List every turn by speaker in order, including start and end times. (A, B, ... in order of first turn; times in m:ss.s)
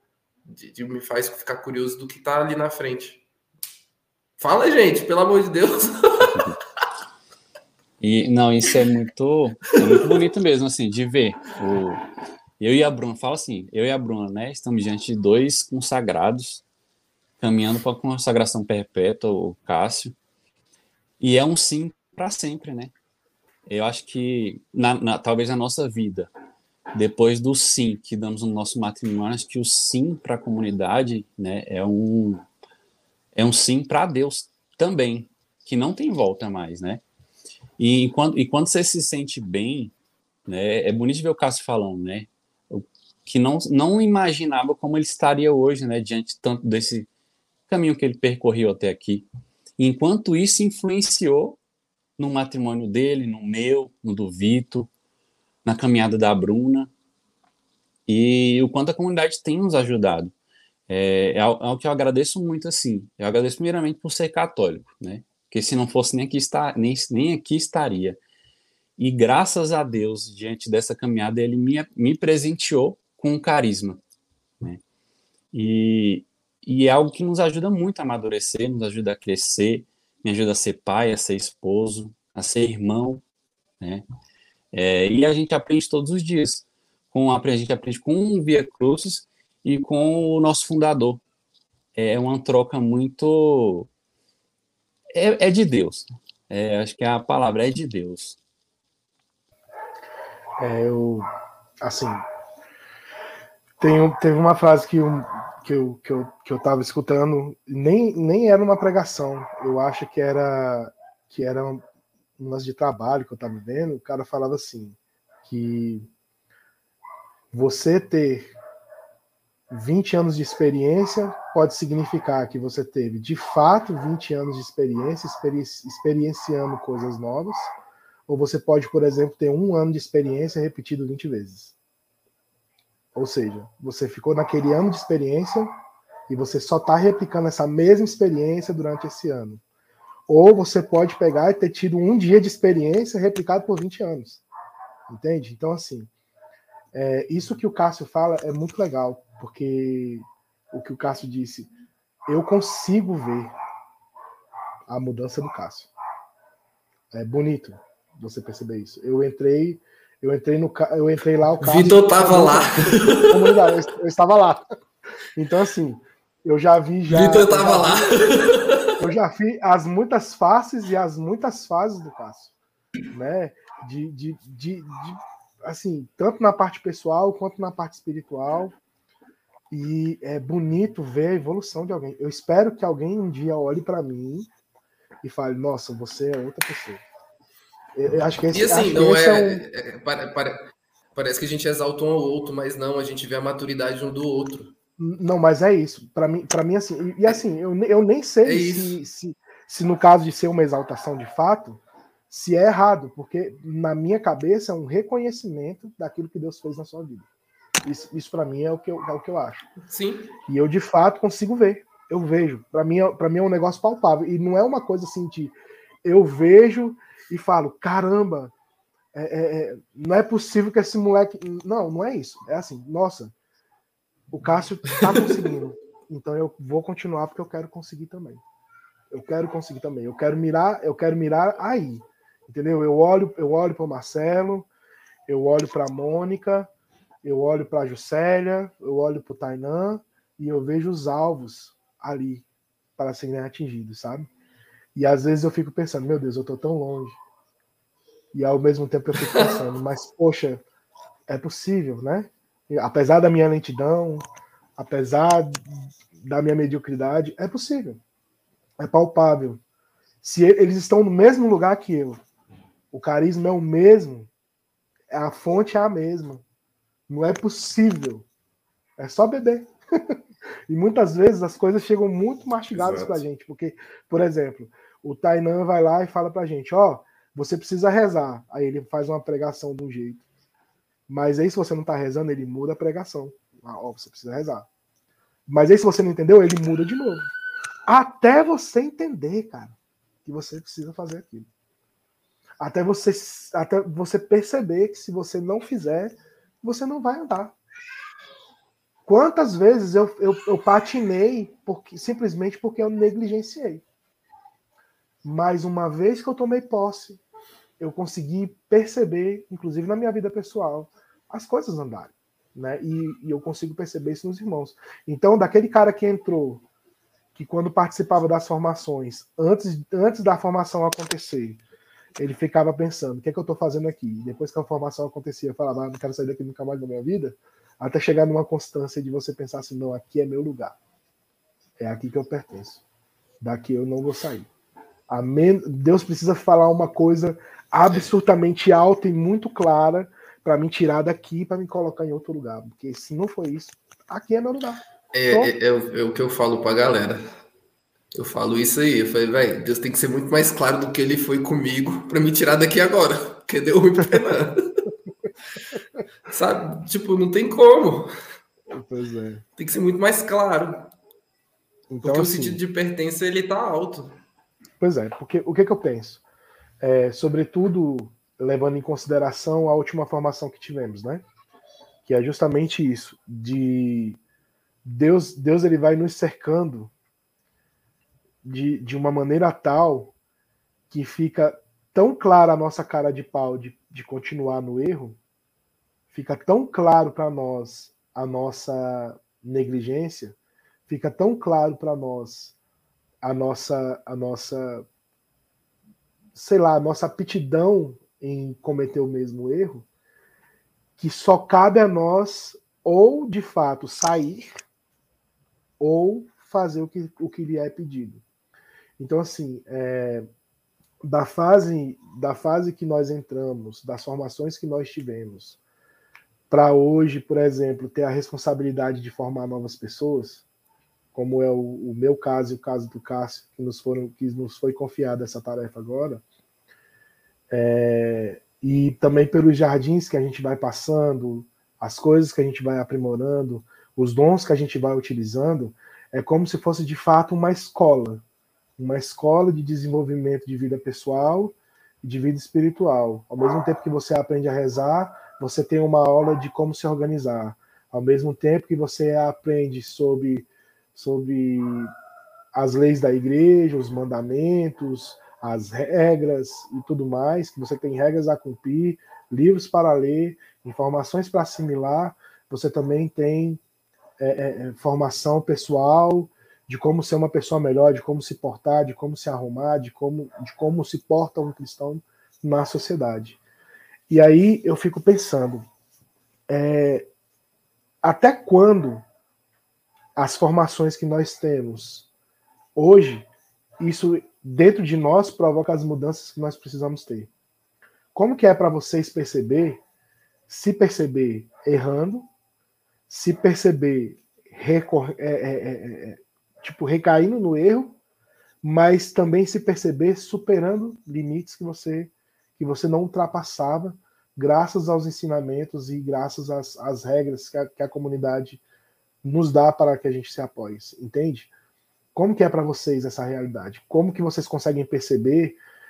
0:00.5-0:03.2 A
0:04.4-0:06.5 A
0:08.0-0:12.0 B
0:12.6-0:16.6 B
0:17.4-0:20.2 B
0:21.2-0:22.9 B
0:23.7-0:26.3 B
0:26.9-0:32.4 B
0:33.4-0:37.0 B
0:37.8-0:39.9 B
0:40.5-0:47.1 B
0:47.7-0:49.3 B
0:49.8-0:51.6 B
0:52.2-0:54.9 B
0:55.6-0:56.9 B
0:58.1-1:00.3 B
1:00.9-1:08.2 B
1:09.0-1:14.0 B
1:15.5-1:23.2 B
1:24.7-1:31.2 B
1:32.0-1:33.9 B
1:35.1-1:38.4 B
1:40.6-1:41.3 C
1:41.8-1:42.2 C
1:43.8-1:51.8 C
1:52.4-1:56.1 C
1:57.5-1:58.5 C
1:59.7-2:07.6 C
2:08.3-2:11.8 C
2:13.2-2:15.7 C
2:16.3-2:19.6 C
2:20.3-2:24.4 C
2:25.1-2:26.1 C
2:26.9-2:31.7 C
2:32.3-2:33.5 C
2:34.9-2:35.9 C
2:37.1-2:44.7 C
2:41.6-2:43.6 A
2:45.4-2:48.2 C
2:47.1-2:49.0 A
2:49.0-2:52.5 C
2:53.1-2:58.8 C
2:59.7-3:04.5 C
3:05.2-3:07.0 C
3:08.0-3:09.6 C
3:08.5-3:14.7 A
3:15.0-3:27.3 C
3:18.4-3:19.0 A
3:27.8-3:29.6 C
3:29.9-3:30.4 A
3:30.5-3:38.5 C
3:39.1-3:43.3 C
3:44.3-3:48.4 C
3:49.1-3:54.7 C
3:55.3-3:56.7 C
3:57.2-4:02.4 C
4:03.0-4:04.3 C
4:05.0-4:07.2 C
4:08.3-4:10.6 C
4:09.2-4:09.5 A
4:11.3-4:14.2 C
4:14.8-4:18.0 C
4:18.8-4:19.6 C
4:20.2-4:22.2 C
4:22.9-4:24.3 C
4:25.1-4:26.4 C
4:27.1-4:28.3 C
4:29.0-4:40.2 C
4:32.7-4:33.2 A
4:41.1-4:44.7 C
4:45.5-4:47.3 C
4:47.9-4:51.5 C
4:52.6-4:57.6 C
4:59.0-5:03.8 C
5:05.2-5:07.2 C
5:07.8-5:16.6 C
5:17.4-5:21.6 C
5:22.2-5:30.8 C
5:31.8-5:32.8 C
5:33.4-5:34.5 C
5:35.1-5:45.5 C
5:45.1-5:47.2 A
5:48.2-5:54.7 A
5:56.3-5:58.1 A
5:58.7-5:59.4 C
5:59.6-6:00.9 A
6:01.9-6:02.6 C
6:02.0-6:04.2 A
6:04.8-6:06.2 C
6:06.8-6:11.2 C
6:12.1-6:14.2 C
6:14.8-6:16.9 C
6:18.4-6:20.1 C
6:20.9-6:25.2 C
6:26.1-6:30.4 C
6:30.9-6:32.6 C
6:33.2-6:34.9 C
6:36.4-6:39.9 C
6:41.0-6:44.5 C
6:45.8-6:48.2 C
6:49.0-6:50.3 C
6:51.0-6:55.6 C
6:56.5-7:00.4 C
7:01.2-7:06.2 C
7:07.5-7:18.2 C
7:18.8-7:31.9 C
7:32.5-7:43.6 C
7:44.2-7:53.4 C
7:54.1-7:55.6 C
7:56.5-7:57.1 C
7:58.0-7:59.0 C
8:00.2-8:02.1 C
8:02.8-8:03.3 C
8:03.8-8:07.3 C
8:08.2-8:09.8 C
8:10.5-8:12.3 C
8:13.1-8:18.0 C
8:18.6-8:28.6 C
8:29.2-8:31.5 C
8:32.2-8:35.6 C